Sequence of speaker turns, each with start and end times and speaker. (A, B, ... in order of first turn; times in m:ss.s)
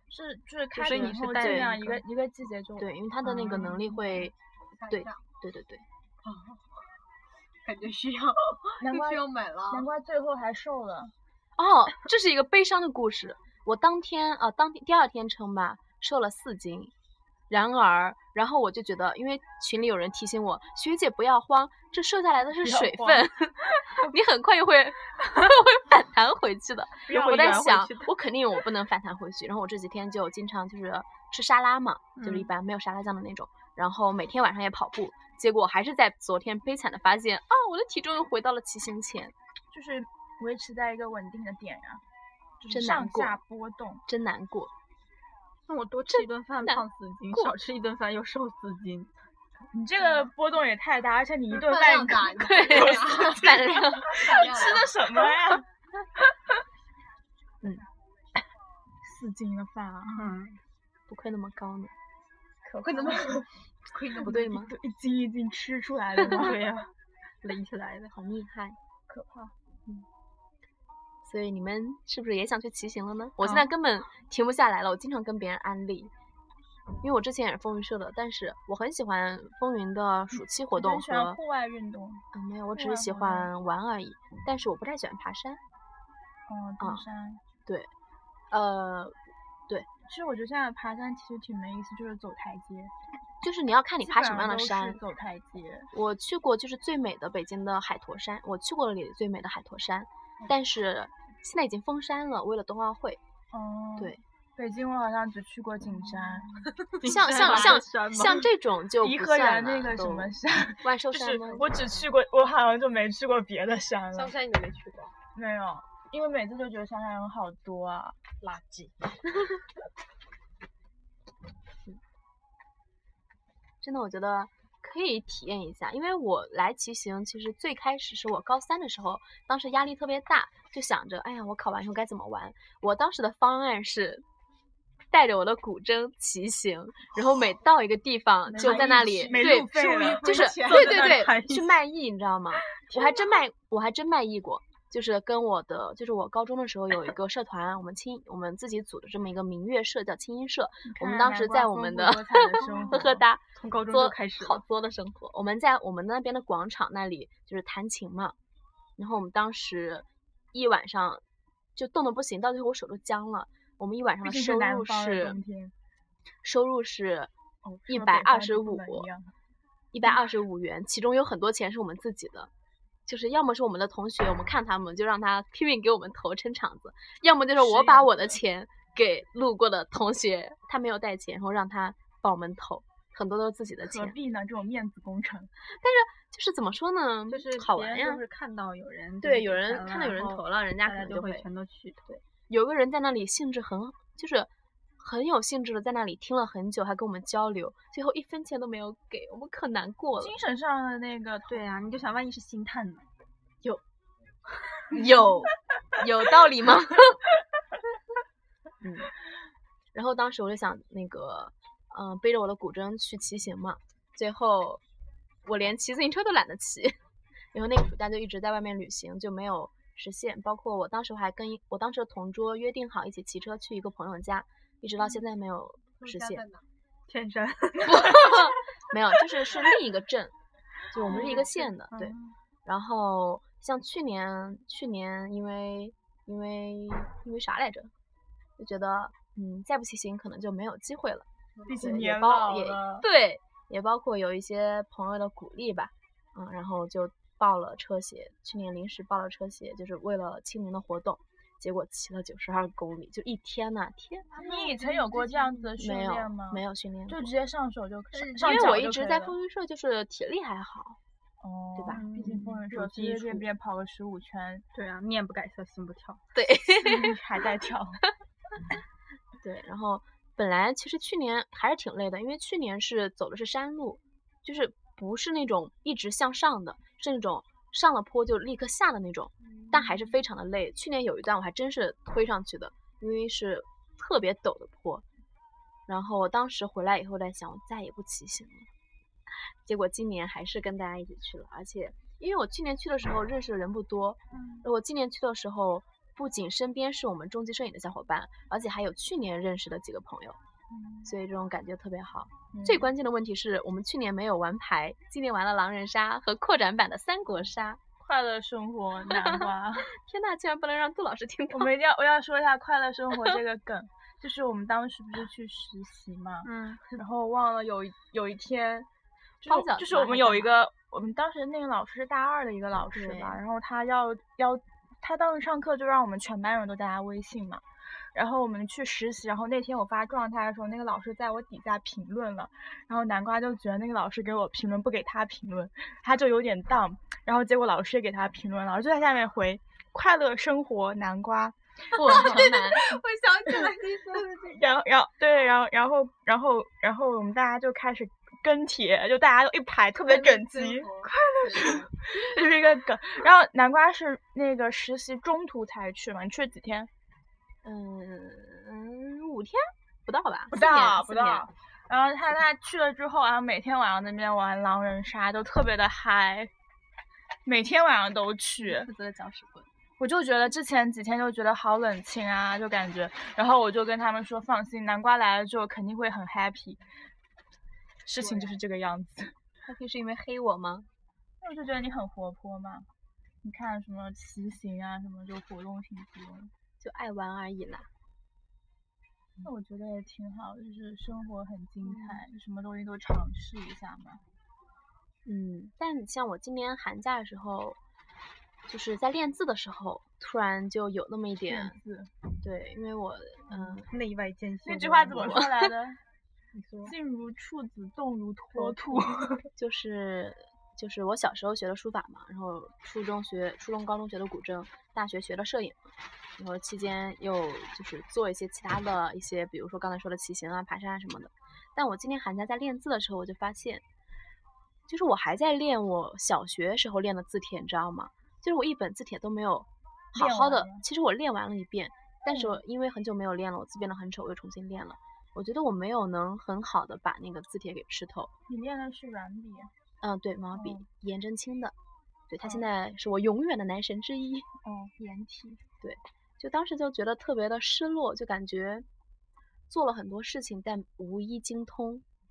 0:00.1-0:04.3 A
0:00.8-0:02.0 B
0:00.8-0:01.7 C
0:02.8-0:04.3 C
0:04.7-0:05.2 D
0:04.9-0:05.8 C
0:06.2-0:06.9 D
0:07.6-0:09.9 D
0:08.8-0:11.1 A
0:11.6-0:16.9 C
0:17.5-0:39.3 C
0:22.6-0:23.3 A
0:27.1-0:27.9 A
0:27.1-0:28.1 B
0:32.2-0:32.5 B
0:39.7-0:42.0 A
0:42.6-0:44.0 A
0:42.7-0:43.4 C
0:44.1-0:44.7 C
0:45.7-0:49.1 B
0:46.1-0:47.6 C
0:49.7-0:55.6 A
0:51.5-0:55.0 D
0:52.4-0:54.4 C
0:59.0-1:00.4 A
1:00.1-1:00.6 B
1:01.1-1:01.9 C
1:02.6-1:03.5 A
1:02.8-1:04.6 D
1:04.2-1:04.7 C
1:04.2-1:06.6 A
1:06.2-1:06.9 B
1:07.4-1:08.1 B
1:08.1-1:08.8 C
1:09.1-1:09.5 A
1:11.2-1:16.1 C
1:17.0-1:21.4 C
1:20.5-1:23.5 A
1:22.3-1:25.6 C
1:26.5-1:27.4 A
1:26.8-1:27.0 C
1:27.6-1:27.9 C
1:28.5-1:29.2 C
1:30.0-1:32.9 A
1:33.4-1:35.0 C
1:34.0-1:35.9 A
1:35.9-1:43.2 C
1:43.5-1:46.7 A
1:46.6-1:46.9 D
1:47.0-1:48.5 B
1:47.0-1:51.7 C
1:49.0-1:54.4 A
1:51.4-1:52.0 D
1:54.1-1:55.1 D
1:55.3-1:58.2 A
1:58.4-1:59.1 D
2:03.8-2:14.2 C
2:15.1-2:38.4 C
2:18.5-2:21.2 D
2:18.5-2:21.3 A
2:20.6-2:21.7 B
2:30.8-2:33.2 A
2:32.6-2:34.6 B
2:39.0-2:41.2 C
2:41.8-2:45.4 C
2:44.2-2:45.7 A
2:46.4-2:47.3 C
2:47.6-2:49.3 A
2:47.9-2:49.1 C
2:49.9-2:52.5 C
2:53.0-3:04.2 C
2:57.7-2:58.1 B
3:03.8-3:05.5 A
3:05.7-3:08.2 C
3:07.3-3:12.0 B
3:09.2-3:11.4 C
3:12.0-3:20.4 C
3:20.2-3:21.7 A
3:21.5-3:23.0 B
3:24.9-3:27.2 C
3:28.8-3:29.1 C
3:29.9-3:34.8 C
3:35.4-3:37.0 C
3:37.5-3:46.4 C
3:46.0-3:46.6 D
3:47.1-3:48.6 B
3:47.8-3:50.3 C
3:50.9-3:57.9 C
3:51.0-3:51.5 D
3:51.1-3:52.3 B
3:58.6-4:01.2 C
4:01.5-4:02.0 D
4:01.7-4:03.0 A
4:01.8-4:14.3 C
4:14.3-4:15.7 D
4:14.4-4:19.4 A
4:15.8-4:17.3 C
4:18.2-4:18.8 B
4:18.3-4:21.0 C
4:21.4-4:24.6 A
4:21.7-4:22.0 C
4:21.9-4:23.4 B
4:24.7-4:26.2 B
4:26.3-4:27.2 C
4:26.8-4:28.0 A
4:29.4-4:45.0 C
4:39.5-4:40.2 A
4:45.9-4:48.7 C
4:49.6-5:00.4 C
5:00.7-5:01.1 A
5:01.0-5:07.8 C
5:02.5-5:02.9 A
5:08.0-5:09.9 A
5:09.1-5:11.7 C
5:11.5-5:18.9 A
5:16.4-5:16.8 B
5:19.4-5:42.9 A
5:19.4-5:20.6 C
5:22.9-5:23.4 C
5:41.9-5:42.9 C
5:42.1-5:44.7 D
5:44.5-5:56.9 A
5:49.9-5:51.9 D
5:57.6-6:01.4 C
6:00.5-6:06.5 A
6:07.4-6:08.9 A
6:08.6-6:09.7 C
6:10.0-6:16.8 A
6:18.0-6:19.3 A
6:18.2-6:18.6 D
6:19.6-6:20.9 C
6:21.4-6:22.9 A
6:23.4-6:26.5 A
6:26.8-6:27.9 C
6:29.4-6:34.2 A
6:35.2-6:37.8 C
6:38.7-6:41.8 C
6:41.4-6:42.1 A
6:42.4-6:43.9 C
6:43.5-6:45.4 B
6:44.6-6:46.0 A
6:45.1-6:45.7 C
6:46.5-6:46.9 B
6:46.8-6:49.4 A
6:48.5-6:49.2 B
6:49.6-7:03.8 C
7:04.9-7:18.3 C
7:10.1-7:10.8 A
7:12.3-7:12.6 A
7:18.5-7:19.7 A
7:20.0-7:21.7 C
7:20.5-7:20.8 A
7:22.3-7:24.5 C
7:24.6-7:25.6 A
7:25.8-7:28.8 C
7:29.7-7:32.0 C